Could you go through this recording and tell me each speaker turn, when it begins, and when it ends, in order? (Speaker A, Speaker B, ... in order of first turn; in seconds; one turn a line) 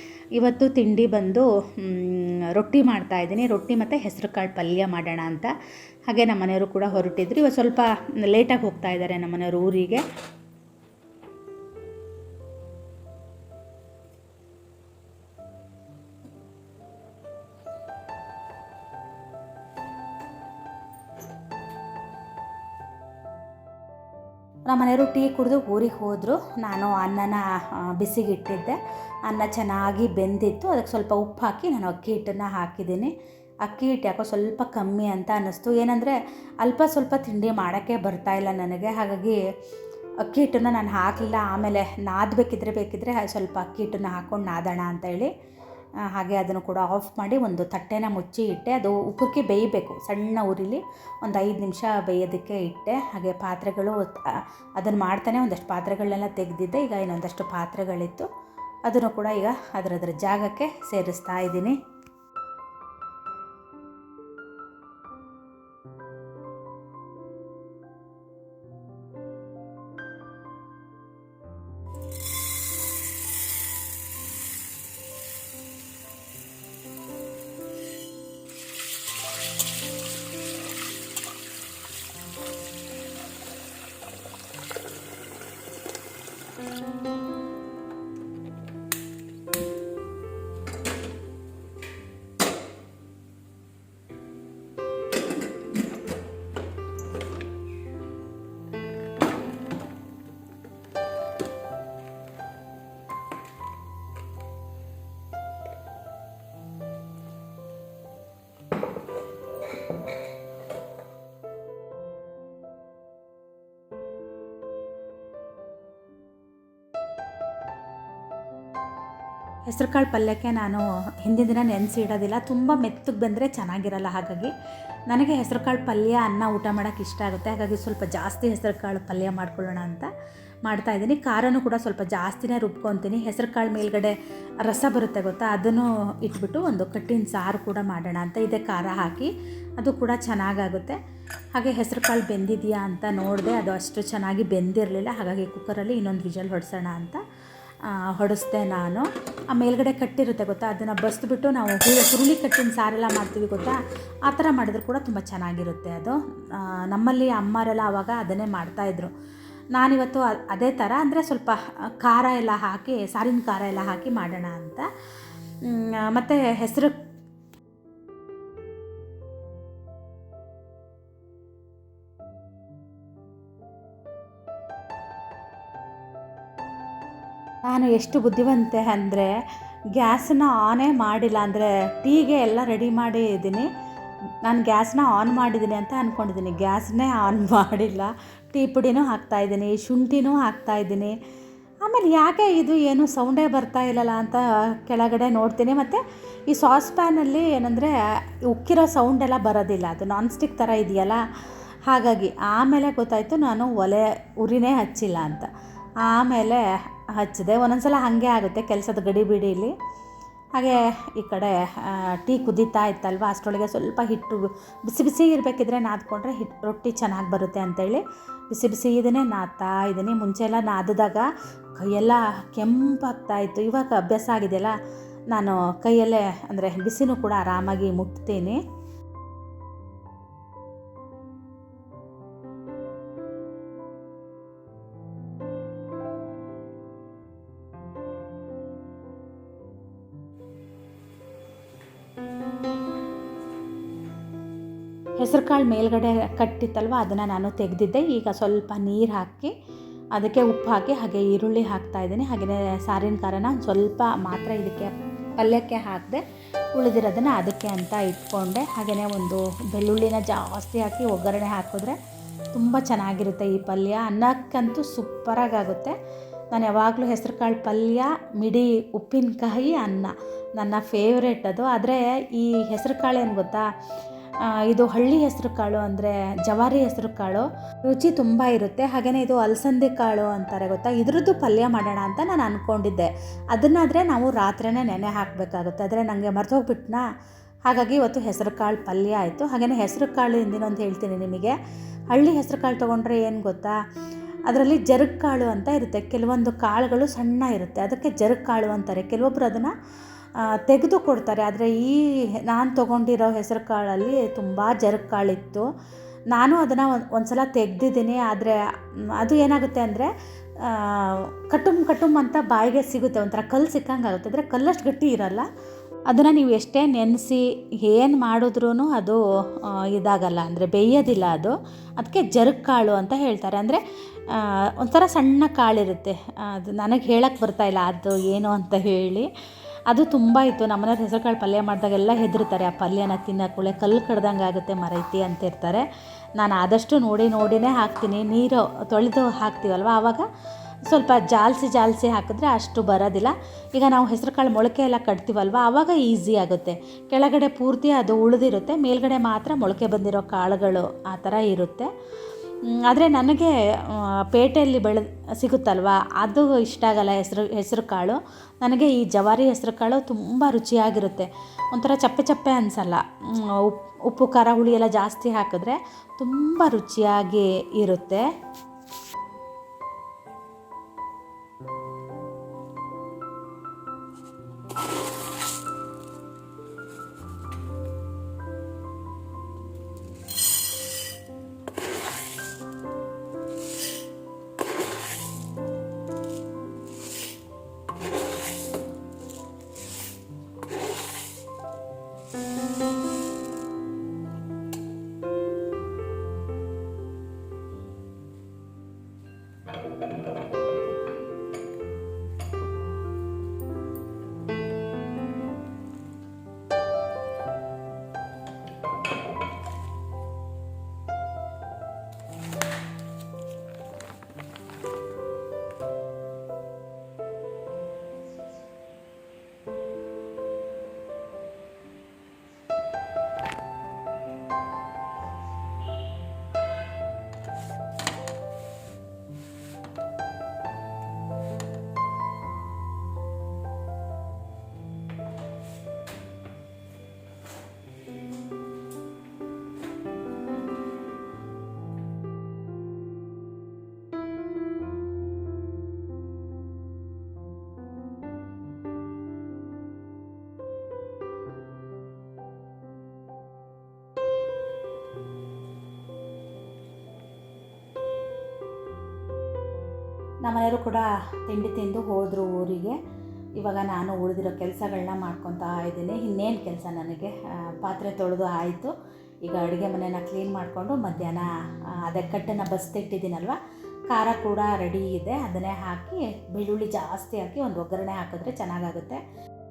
Speaker A: 0.3-5.5
Speaker A: 6.1-10.0
Speaker A: 24.7-39.4
Speaker A: 40.2-45.3
Speaker A: 46.1-58.3
Speaker A: 58.9-61.8
Speaker A: 119.7-124.5
Speaker A: 125.1-130.1
Speaker A: 130.7-141.0
Speaker A: 141.5-147.2
Speaker A: 147.8-159.1
Speaker A: 159.8-164.9
Speaker A: 165.6-167.0
Speaker A: 177.7-179.3
Speaker A: 179.9-183.7
Speaker A: 184.4-191.2
Speaker A: 191.8-201.2
Speaker A: 201.9-205.5
Speaker A: 206.0-209.7
Speaker A: 210.6-224.8
Speaker A: 225.3-228.6
Speaker A: 245.2-249.5
Speaker A: 250.2-256.2
Speaker A: 256.8-262.0
Speaker A: 262.5-266.0
Speaker A: 266.5-273.7
Speaker A: 274.4-287.0
Speaker A: 287.7-291.6
Speaker A: 292.1-293.8
Speaker A: 294.5-299.7
Speaker A: 300.4-305.7
Speaker A: 306.3-308.6
Speaker A: 309.1-315.5
Speaker A: 316.1-329.3
Speaker A: 329.9-335.9
Speaker A: 336.4-340.3
Speaker A: 340.9-351.9
Speaker A: 352.7-368.3
Speaker A: 460.4-463.0
Speaker A: 463.6-468.9
Speaker A: 469.4-473.6
Speaker A: 474.1-479.2